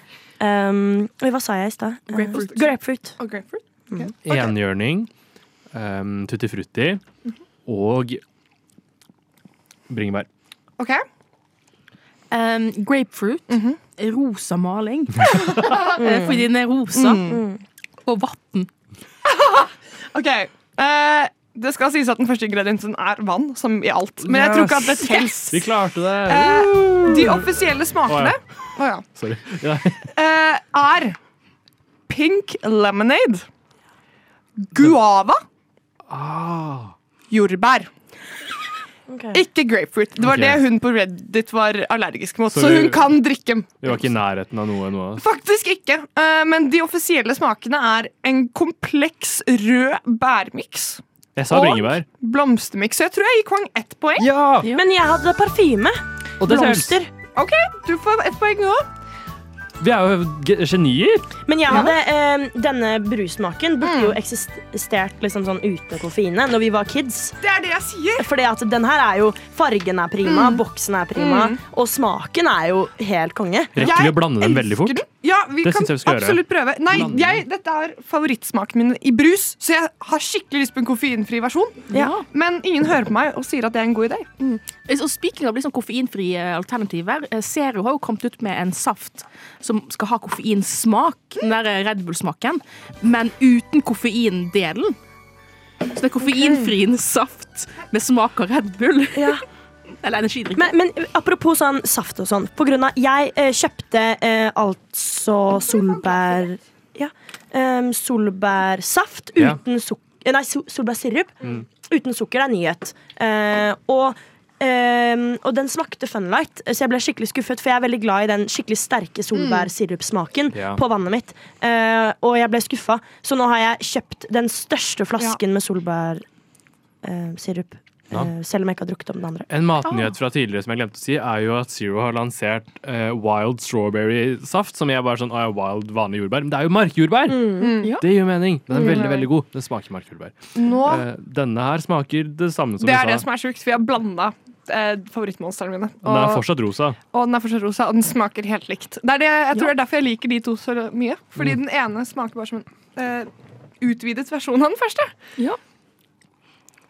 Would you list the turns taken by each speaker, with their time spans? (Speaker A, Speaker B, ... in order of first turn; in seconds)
Speaker A: 0.4-3.2, 16.0-16.4, 17.3-17.6, 39.1-39.4, 54.7-57.1, 61.5-67.4, 68.2-73.9, 81.9-82.2, 99.1-99.4, 100.5-126.2, 127.0-129.5, 137.3-137.8
Speaker B: 2.1-2.5, 12.3-17.4, 18.0-18.7, 81.9-82.2, 84.4-95.0, 95.8-99.4, 100.0-100.7, 129.8-130.1
Speaker C: 2.2-4.5, 13.5-13.8, 15.6-16.0, 16.9-17.4, 19.2-29.0, 30.1-31.2, 32.1-33.5, 34.6-35.4, 37.3-37.9, 39.3-43.9, 45.2-54.3, 57.3-58.9, 63.8-64.2, 67.4-68.2, 70.2-70.6, 71.2-71.6, 73.8-84.3, 105.7-106.4, 119.3-119.7, 137.6-138.0, 138.7-139.3, 140.5-141.0, 142.8-146.4, 147.1-153.3, 153.8-155.1
Speaker D: 4.2-5.1, 5.7-7.0, 7.7-8.2, 9.9-10.3, 24.2-28.4, 29.1-30.1, 36.1-36.9, 40.2-40.6, 42.5-43.2, 43.8-45.2, 51.4-52.0, 54.2-54.7, 56.4-57.0, 59.8-61.3, 73.7-75.0, 75.6-77.4, 120.5-120.8, 129.5-143.3, 146.0-147.0